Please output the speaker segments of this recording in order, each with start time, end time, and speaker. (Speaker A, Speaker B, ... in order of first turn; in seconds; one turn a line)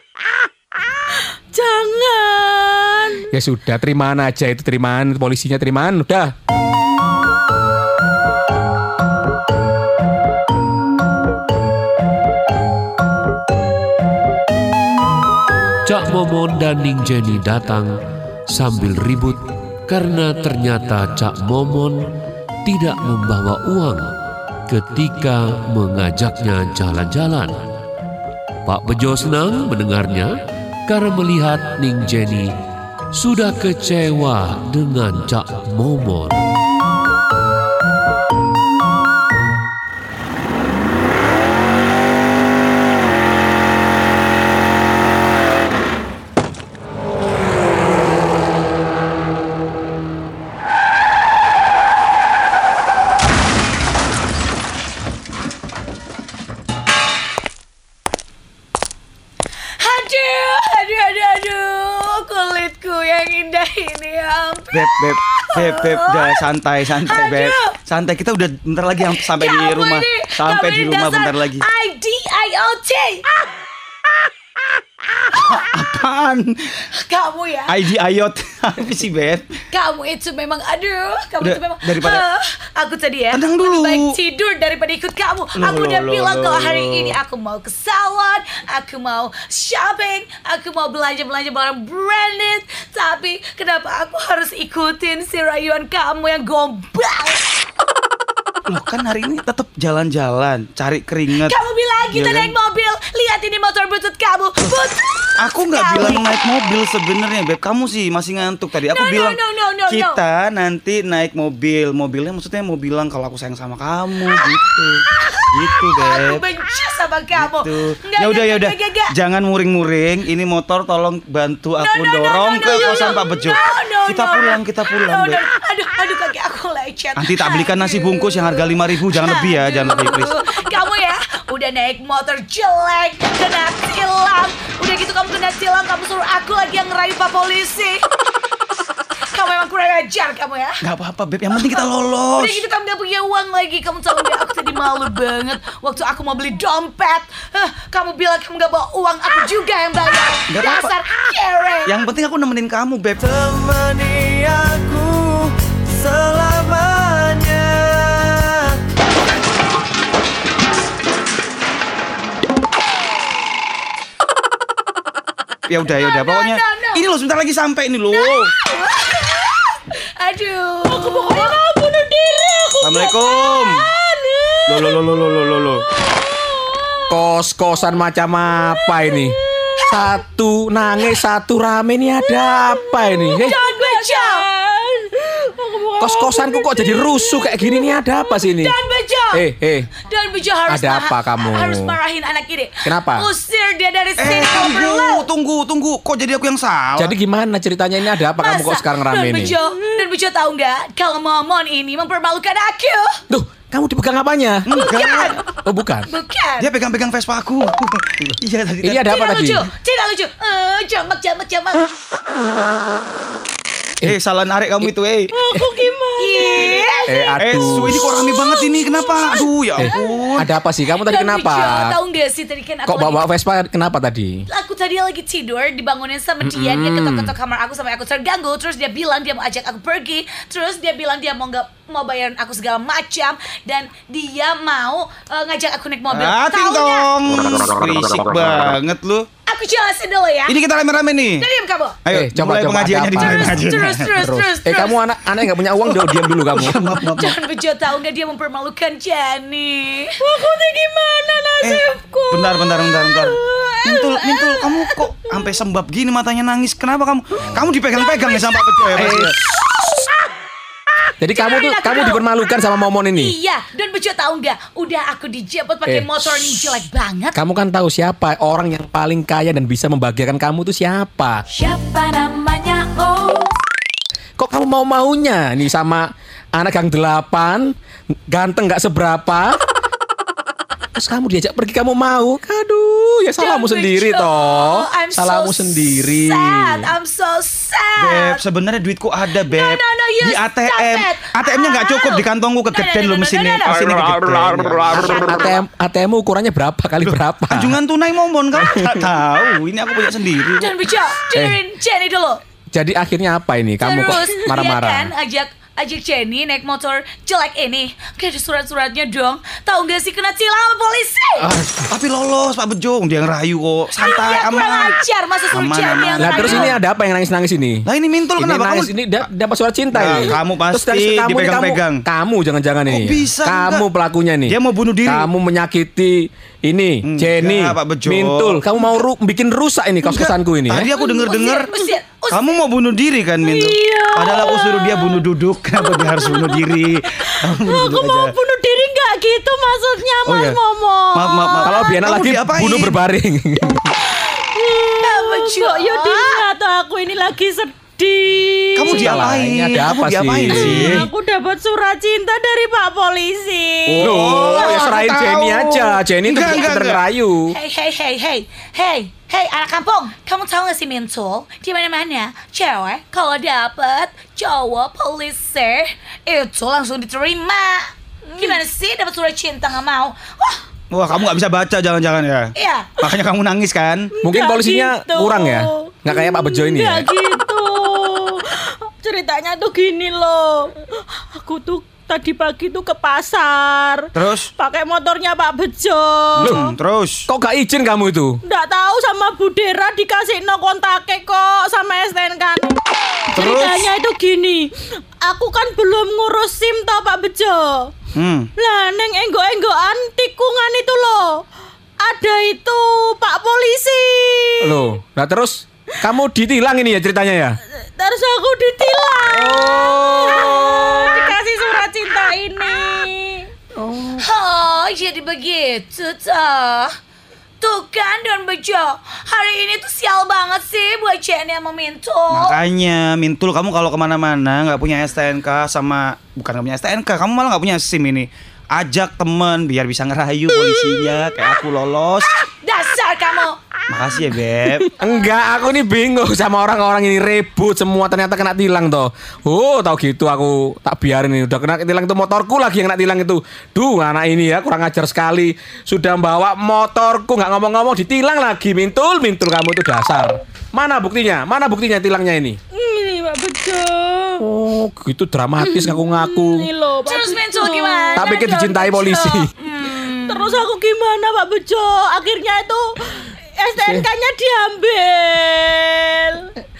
Speaker A: 1.5-3.3
Speaker B: 3.3-6.3
Speaker C: 15.8-17.9
Speaker C: 18.5-22.0
Speaker C: 22.6-24.1
Speaker C: 24.7-27.6
Speaker C: 28.6-30.3
Speaker C: 30.9-32.5
Speaker C: 33.1-36.4
Speaker D: 59.8-66.5
Speaker E: 64.7-71.6
Speaker D: 67.1-67.8
Speaker D: 69.1-73.2
Speaker E: 75.5-76.6
Speaker D: 76.9-77.7
Speaker E: 77.7-79.5
Speaker D: 79.7-97.5
Speaker E: 81.4-82.2
Speaker E: 83.3-84.1
Speaker E: 85.5-87.2
Speaker E: 98.7-101.5
Speaker D: 101.4-106.3
Speaker E: 102.1-102.5
Speaker E: 105.4-116.4
Speaker D: 108.9-110.2
Speaker D: 115.1-119.1
Speaker E: 117.3-125.4
Speaker D: 121.8-138.0
Speaker E: 127.2-130.3
Speaker D: 139.3-140.8
Speaker E: 140.8-142.6
Speaker D: 142.3-151.9
Speaker E: 150.5-150.9
Speaker E: 151.8-153.7
Speaker F: 153.5-155.3
Speaker F: 156.1-158.1
Speaker E: 165.7-168.5
Speaker D: 165.9-167.0
Speaker D: 168.1-171.6
Speaker A: 170.9-177.1
Speaker E: 172.8-173.8
Speaker E: 174.7-175.8
Speaker B: 177.1-183.6
Speaker A: 178.8-179.9
Speaker A: 182.2-188.2
Speaker D: 183.4-184.4
Speaker B: 186.0-188.7
Speaker D: 188.4-189.4
Speaker B: 189.3-189.9
Speaker D: 189.9-195.2
Speaker B: 190.7-191.9
Speaker B: 192.8-193.2
Speaker E: 194.2-197.1
Speaker B: 197.0-199.5
Speaker D: 198.3-203.1
Speaker A: 199.7-200.0
Speaker B: 203.3-204.7
Speaker E: 204.7-205.4
Speaker D: 204.7-205.5
Speaker B: 205.6-206.1
Speaker D: 206.1-206.7
Speaker E: 206.6-209.1
Speaker B: 208.8-209.6
Speaker D: 209.1-211.9
Speaker E: 214.0-215.3
Speaker A: 215.3-217.0
Speaker D: 216.2-217.1
Speaker B: 217.1-218.1
Speaker E: 217.4-220.5
Speaker B: 219.8-221.9
Speaker D: 220.9-223.2
Speaker B: 222.9-224.4
Speaker D: 224.5-237.1
Speaker B: 226.4-227.3
Speaker E: 236.1-239.3
Speaker D: 239.5-240.6
Speaker E: 240.5-241.5
Speaker D: 241.4-242.0
Speaker E: 242.0-244.3
Speaker B: 242.1-246.8
Speaker D: 243.2-245.0
Speaker E: 245.8-247.4
Speaker D: 247.1-250.1
Speaker A: 250.2-255.5
Speaker E: 251.6-259.3
Speaker D: 257.9-258.6
Speaker B: 258.9-259.6
Speaker B: 261.2-263.3
Speaker D: 261.3-262.2
Speaker D: 263.1-267.4
Speaker B: 265.9-266.7
Speaker B: 267.3-271.4
Speaker D: 271.5-273.5
Speaker B: 274.4-277.7
Speaker B: 278.3-279.6
Speaker B: 280.9-286.9
Speaker D: 283.4-288.4
Speaker E: 288.0-295.4
Speaker D: 289.3-294.1
Speaker D: 294.9-295.6
Speaker B: 295.1-297.8
Speaker E: 297.0-300.7
Speaker B: 298.6-299.1
Speaker D: 300.6-302.4
Speaker B: 302.7-305.1
Speaker D: 303.8-311.5
Speaker B: 311.4-311.9
Speaker E: 311.9-314.9
Speaker D: 314.0-316.7
Speaker E: 315.5-316.8
Speaker B: 316.2-317.8
Speaker E: 317.9-319.1
Speaker B: 318.4-330.9
Speaker E: 319.9-322.0
Speaker E: 322.9-323.9
Speaker E: 324.5-325.3
Speaker E: 327.0-328.7
Speaker E: 330.0-331.7
Speaker D: 331.2-332.6
Speaker E: 332.3-338.3
Speaker A: 333.4-335.2
Speaker A: 335.8-341.7
Speaker E: 340.2-340.6
Speaker E: 341.1-343.0
Speaker B: 341.6-343.9
Speaker A: 344.0-349.2
Speaker D: 345.0-346.4
Speaker E: 348.8-351.0
Speaker B: 348.8-351.1
Speaker A: 350.5-354.1
Speaker B: 353.9-357.5
Speaker E: 353.9-357.1
Speaker D: 354.4-354.9
Speaker D: 356.4-356.7
Speaker D: 357.5-370.6
Speaker E: 370.9-374.1
Speaker D: 372.6-373.0
Speaker A: 374.2-386.7
Speaker B: 374.2-377.1
Speaker E: 384.1-384.5
Speaker E: 386.4-387.2
Speaker B: 387.3-388.4
Speaker A: 388.4-392.8
Speaker A: 393.3-394.7
Speaker E: 393.3-393.9
Speaker A: 395.2-397.9
Speaker E: 398.1-398.5
Speaker A: 398.6-401.4
Speaker A: 402.0-404.8
Speaker B: 404.6-407.6
Speaker A: 407.8-413.5
Speaker D: 410.7-411.3
Speaker B: 413.7-414.2
Speaker D: 414.2-416.9
Speaker D: 417.6-422.6
Speaker E: 422.3-432.3
Speaker D: 432.2-433.6
Speaker E: 433.9-434.8
Speaker B: 434.9-452.6
Speaker A: 452.7-454.4
Speaker B: 454.4-456.7
Speaker A: 455.6-458.3
Speaker D: 457.0-460.6
Speaker B: 458.1-459.5
Speaker A: 460.3-466.5